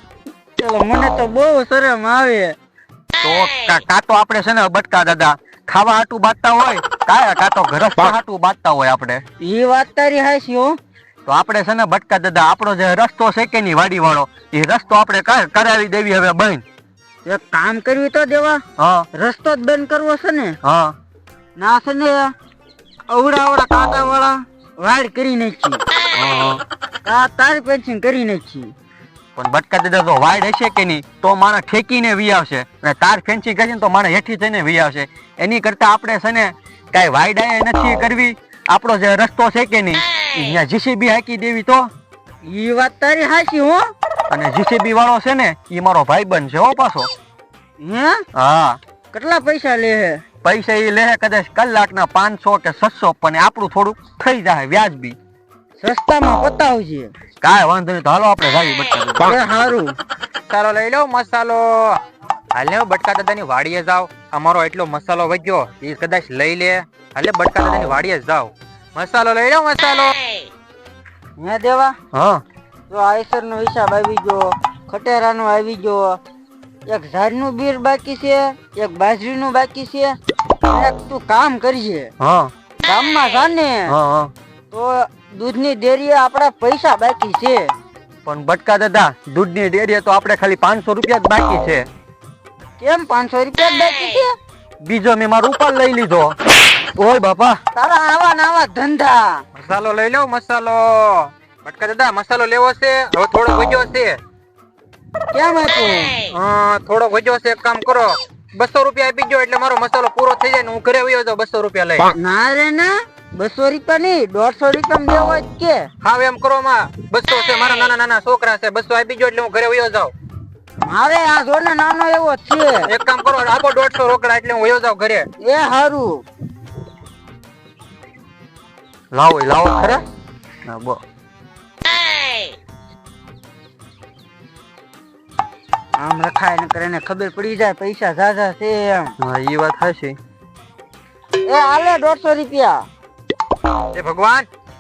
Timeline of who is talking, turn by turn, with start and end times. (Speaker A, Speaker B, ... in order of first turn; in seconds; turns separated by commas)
Speaker A: 0.6-2.6, Speaker B: 3.2-9.2, Speaker A: 9.4-10.8, Speaker B: 11.2-16.6, Speaker A: 17.2-18.6, Speaker B: 18.8-19.1, Speaker A: 19.1-20.6, Speaker B: 20.6-20.9, Speaker A: 21.6-22.3, Speaker A: 23.1-25.8, Speaker B: 26.2-26.6, Speaker A: 27.0-28.7, Speaker B: 29.4-41.9, Speaker A: 42.4-43.9, Speaker B: 44.3-47.1, Speaker A: 47.8-48.2, Speaker B: 48.3-48.8, Speaker A: 49.1-50.2, Speaker B: 50.4-55.2, Speaker A: 55.8-57.1, Speaker B: 57.4-59.4, Speaker A: 59.2-60.0, Speaker C: 60.5-62.0, Speaker C: 62.5-70.2, Speaker A: 71.4-72.0, Speaker B: 72.1-72.4, Speaker A: 72.9-76.2, Speaker A: 76.9-82.1, Speaker B: 82.2-82.5, Speaker A: 82.8-83.9, Speaker B: 83.9-84.3, Speaker A: 84.7-87.7, Speaker B: 88.2-91.9, Speaker A: 92.8-94.3, Speaker B: 94.8-96.4, Speaker B: 97.0-97.6, Speaker A: 97.7-99.4, Speaker C: 99.5-104.2, Speaker A: 105.3-106.1, Speaker C: 106.3-112.1, Speaker A: 112.1-115.9, Speaker C: 116.0-120.1, Speaker A: 120.8-122.9, Speaker C: 122.9-125.3, Speaker A: 125.4-126.2, Speaker B: 129.1-130.0, Speaker B: 130.7-131.0, Speaker A: 135.9-139.2, Speaker B: 139.2-140.2, Speaker A: 141.4-142.9, Speaker C: 143.9-144.5